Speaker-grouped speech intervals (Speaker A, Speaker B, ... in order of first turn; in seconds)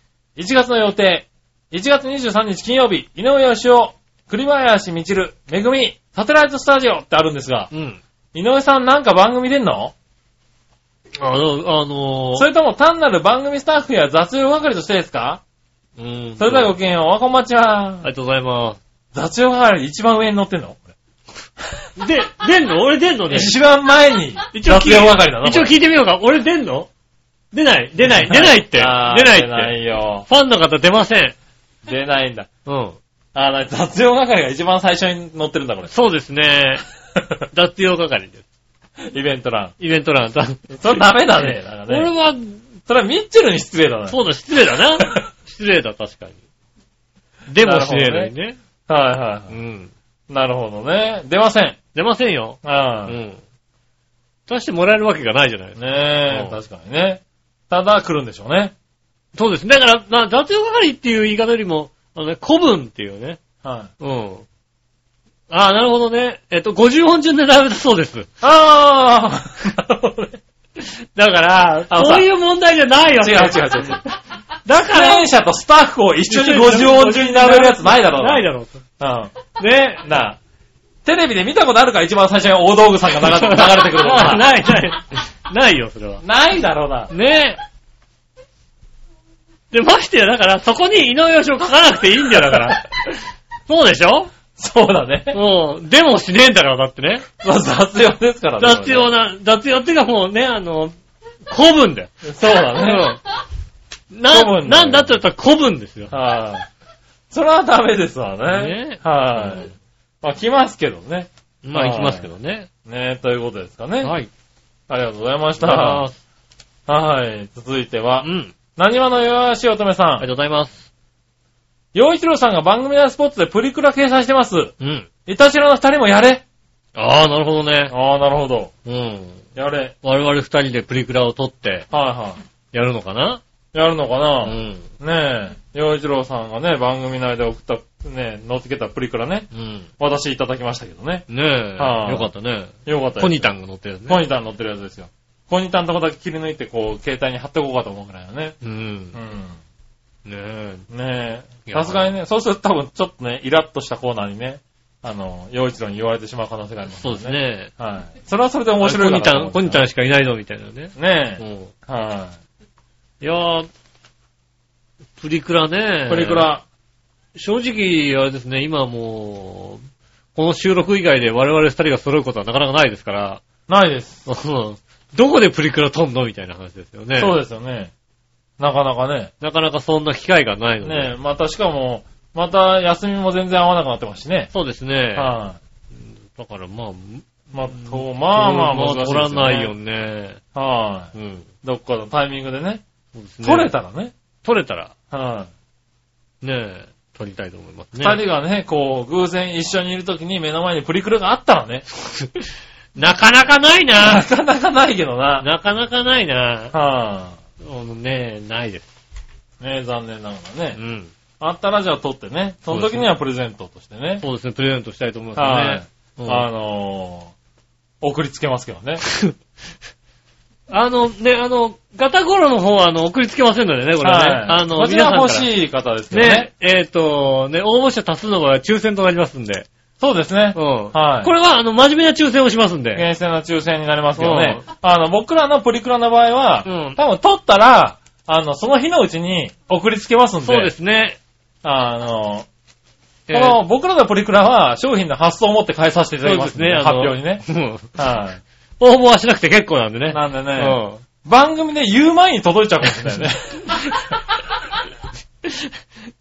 Speaker A: 0.3-7.7, 8.3-9.9, 12.3-15.4, 16.4-18.1, 19.1-20.9, 23.3-25.7, 28.0-30.2, 31.8-32.5, 33.3-35.9, 39.0-39.7, 40.7-42.1, 42.9-44.2, 47.6-48.3, 48.9-49.5, 50.3-51.8, 52.6-53.1, 55.8-58.7, 63.6-63.9, 68.4-70.4, 71.9-72.3, 73.2-74.0, 74.7-78.4, 79.0-80.4, 81.0-84.5, 86.2-87.1, 92.4-92.7, 94.5-95.4, 97.4-99.1, 102.2-103.2, 104.3-105.2, 106.1-106.7, 107.3-112.3, 112.8-114.1, 114.9-116.0, 116.9-120.2, 121.9-124.7, 125.3-126.4, 127.9-128.7, 129.5-129.9, 131.9-132.4, 133.7-142.3, 142.8-143.5, 144.1-148.6, 149.1-149.6, 150.9-159.8, 161.0-162.4, 166.1-166.6, 173.7-174.2, 177.2-177.9, 178.6-179.3, 180.8-184.5, 185.1-185.6, 187.5-189.7, 190.5-191.1, 191.6-192.8, 193.4-194.1, 195.1-195.5, 198.0-201.8, 204.0-205.4, 206.7-207.4, 209.6-210.8, 211.4-214.2, 215.3-217.3, 218.0-219.0, 224.0-226.5, 230.0-231.3, 232.9-240.7, 241.6-242.5, 243.3-247.4, 247.9-248.4, 250.1-253.8
Speaker B: 7.7-8.0, 11.2-12.5, 16.0-16.7, 18.0-18.8, 21.9-23.6, 24.5-26.9, 27.5-29.7, 30.2-31.4, 32.6-33.0, 35.9-36.8, 37.5-38.4, 39.8-42.7, 44.1-46.4, 47.5-48.6, 49.5-49.9, 51.9-53.4, 54.5-56.6, 59.3-63.4, 64.0-64.5, 65.5-68.3, 70.8-74.0, 74.6-75.2, 76.3-78.8, 79.5-80.1, 83.4-86.2, 87.1-87.6, 89.7-94.3, 95.3-97.2, 98.6-100.9, 101.5-103.2, 104.1-106.1, 108.5-109.7, 111.6-112.7, 114.0-114.3, 115.6-116.2, 118.2-118.5, 120.2-120.8, 124.8-125.1, 127.0-127.9, 128.8-129.5, 130.0-131.9, 132.7-133.4, 134.4-134.9, 139.5-139.9, 141.3-144.2, 148.6-149.2, 150.2-150.9, 151.7-152.1, 156.9-157.7, 158.8-161.7, 163.2-163.7, 165.2-166.5, 167.3-169.8, 170.3-173.4, 174.2-177.3, 179.4-181.1, 184.5-185.3, 185.9-190.4, 191.1-191.5, 193.1-193.7, 194.4-194.9, 196.4-198.2, 201.9-204.2, 205.4-206.7, 207.6-208.9, 210.8-211.1, 212.7-213.1, 214.2-216.5, 219.1-219.3, 220.7-225.5, 226.1-229.7, 230.5-233.1, 234.2-234.6, 236.7-237.0, 240.4-241.2, 243.3-243.6, 246.2-248.0, 248.8-251.0, 255.4-255.7